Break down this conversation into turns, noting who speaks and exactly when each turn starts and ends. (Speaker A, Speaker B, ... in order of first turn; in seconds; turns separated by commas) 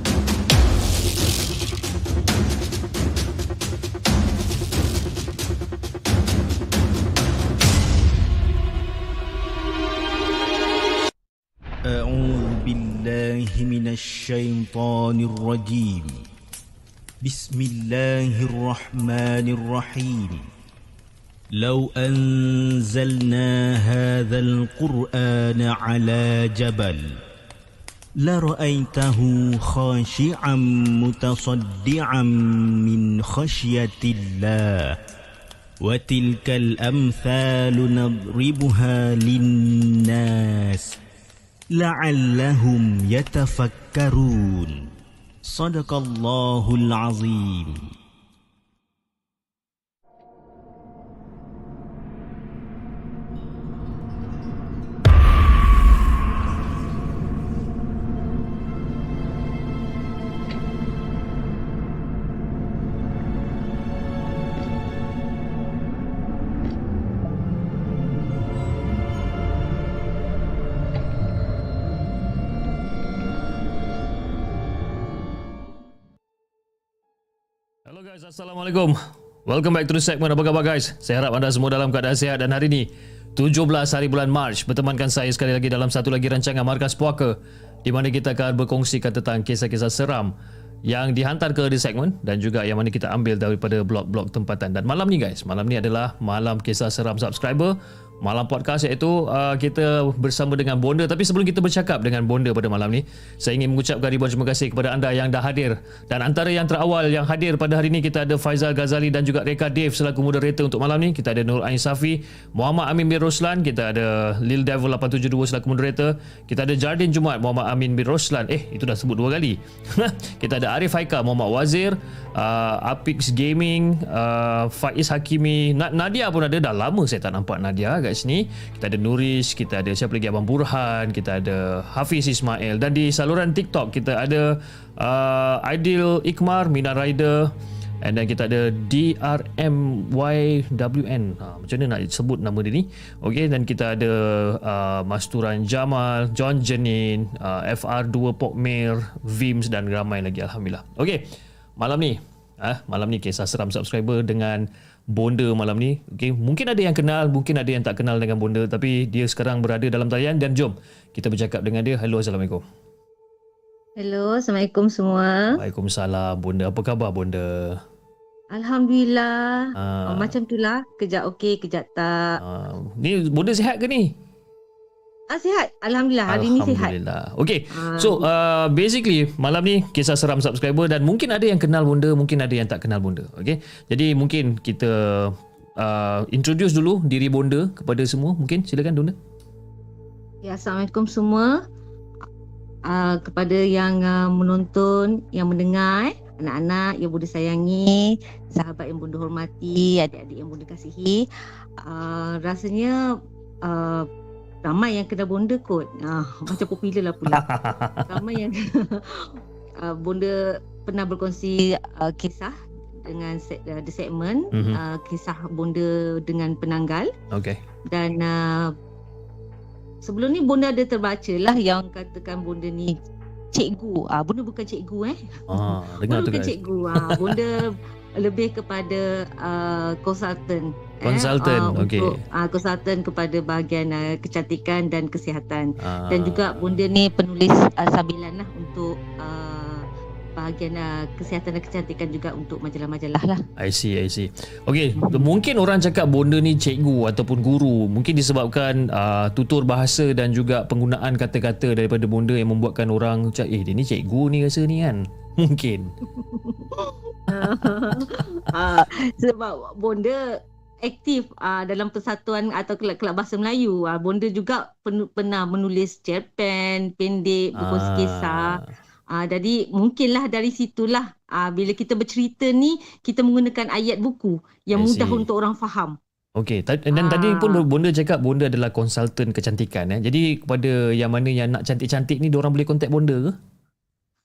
Speaker A: 11.8-16.2, Speaker A: 17.2-20.4, Speaker A: 21.6-27.1, Speaker A: 28.2-34.9, Speaker A: 35.8-41.0, Speaker A: 41.7-44.9, Speaker A: 45.5-47.8, Speaker B: 77.8-90.3, Speaker B: 90.9-151.3, Speaker B: 151.8-162.6, Speaker C: 164.0-165.6, Speaker B: 165.5-167.8, Speaker C: 168.5-172.4, Speaker B: 169.8-170.3, Speaker B: 172.4-174.1, Speaker C: 175.3-176.9, Speaker B: 176.3-189.2, Speaker C: 177.7-178.2, Speaker C: 190.4-191.6, Speaker C: 192.9-201.2, Speaker C: 201.8-203.0, Speaker C: 203.6-204.1, Speaker C: 204.6-207.4, Speaker B: 207.3-208.2, Speaker C: 208.1-217.1, Speaker B: 214.5-214.8, Speaker B: 217.3-217.6, Speaker C: 217.9-218.7, Speaker C: 220.0-222.9, Speaker C: 223.5-239.8, Speaker B: 225.5-227.4, Speaker B: 231.0-232.2, Speaker B: 235.8-236.8, Speaker C: 240.4-243.4, Speaker B: 243.6-255.9, Speaker C: 245.0-245.2, Speaker C: 256.4-268.6, Speaker B: 257.3-258.2, Speaker B: 267.6-268.7, Speaker C: 269.1-276.0, Speaker B: 274.7-275.3, Speaker B: 276.4-283.4, Speaker C: 276.9-277.6